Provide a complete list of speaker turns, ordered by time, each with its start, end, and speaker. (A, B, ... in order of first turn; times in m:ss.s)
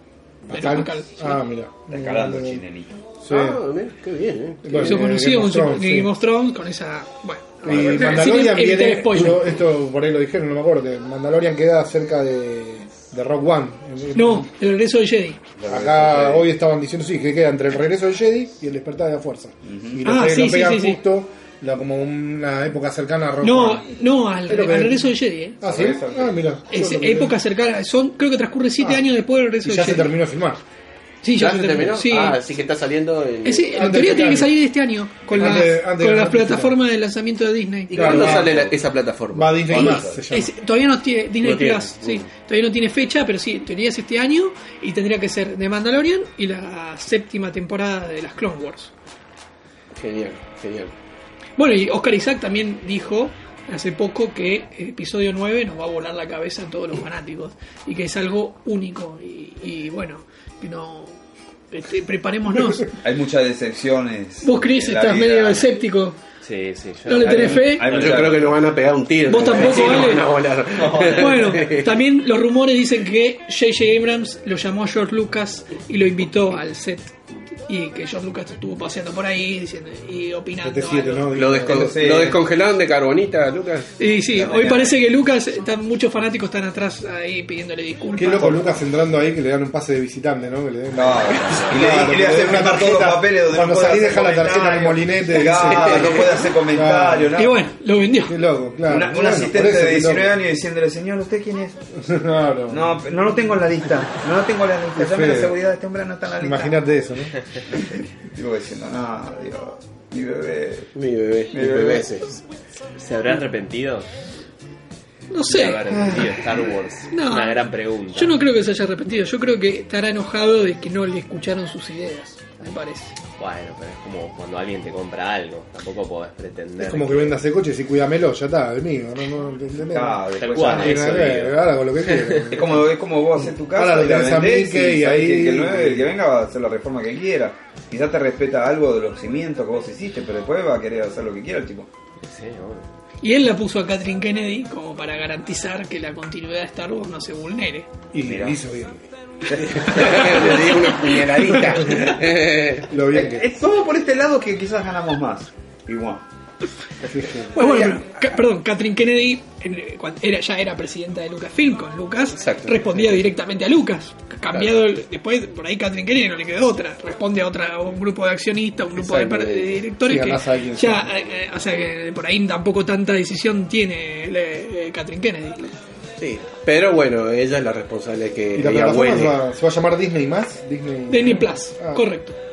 0:00.5-0:02.6 A
0:00.5-0:01.4 B
0:01.9-0:03.0 C
0:03.2-0:03.6 A
0:03.3-0:05.0 D
0:04.6-0:06.1 A
0:04.8-0:09.6 B
0:07.6-0:14.5 A
0:14.1-0:15.4 B
0:15.6-0:16.5 C
0:15.7-0:23.9 A
0:19.6-0:20.2 C
0:20.0-0:21.0 B
0:23.4-0:25.6 B
0:24.5-0:27.4 A
0:25.6-0:26.4 C
0:26.7-0:30.1 B
0:29.6-0:30.6 A
0:31.2-0:32.4 B
0:31.4-0:34.0 D
0:33.4-0:38.3 B
0:33.7-0:34.6 A
0:35.3-0:36.8 A
0:37.9-0:39.7 D
0:38.0-0:38.6 A
0:38.0-0:38.7 C
0:39.3-0:40.5 A
0:39.7-0:40.2 C
0:39.8-0:48.9 B
0:41.4-0:42.3 D
0:50.0-0:50.9 D
0:51.6-1:01.2 B
1:01.7-1:03.0 B
1:03.0-1:05.8 C
1:04.4-1:06.2 B
1:06.4-1:08.4 E
1:07.1-1:07.9 B
1:07.1-1:08.5 C
1:07.4-1:12.0 D
1:09.3-1:10.3 B
1:09.3-1:10.1 C
1:10.8-1:11.3 C
1:10.9-1:11.3 E
1:11.1-1:17.1 B
1:17.7-1:21.3 B
1:20.6-1:22.1 A
1:21.3-1:24.9 D
1:21.6-1:22.4 C
1:24.0-1:28.7 B
1:28.1-1:37.3 A
1:30.9-1:37.6 C
1:37.4-1:38.4 B
1:38.3-1:40.4 A
1:38.9-1:41.9 C
1:42.0-1:43.0 A
1:42.7-1:46.8 C
1:45.0-1:45.6 A
1:46.4-1:47.4 A
1:47.7-1:50.9 C
1:50.9-1:52.2 D
1:51.5-1:52.4 C
1:53.0-1:54.1 E
1:55.3-1:56.3 B
1:55.5-1:58.4 E
1:57.1-2:03.2 B
2:03.4-2:07.3 E
2:06.8-2:16.1 A
2:09.9-2:11.5 C
2:10.4-2:11.5 E
2:12.1-2:12.4 E
2:12.5-2:21.9 C
2:22.2-2:22.9 E
2:23.2-2:27.9 B
2:28.1-2:29.0 A
2:28.2-2:28.6 C
2:29.5-2:30.7 C
2:29.8-2:32.9 D
2:31.5-2:31.9 C
2:32.9-2:33.5 A
2:33.1-2:36.2 C
2:37.1-2:37.6 A
2:37.5-2:55.7 B
2:37.6-2:37.9 C
2:42.4-2:43.1 D
2:49.0-2:49.8 D
2:50.1-2:51.1 A
2:56.2-2:59.4 D
2:58.6-3:02.1 A
3:01.1-3:02.4 B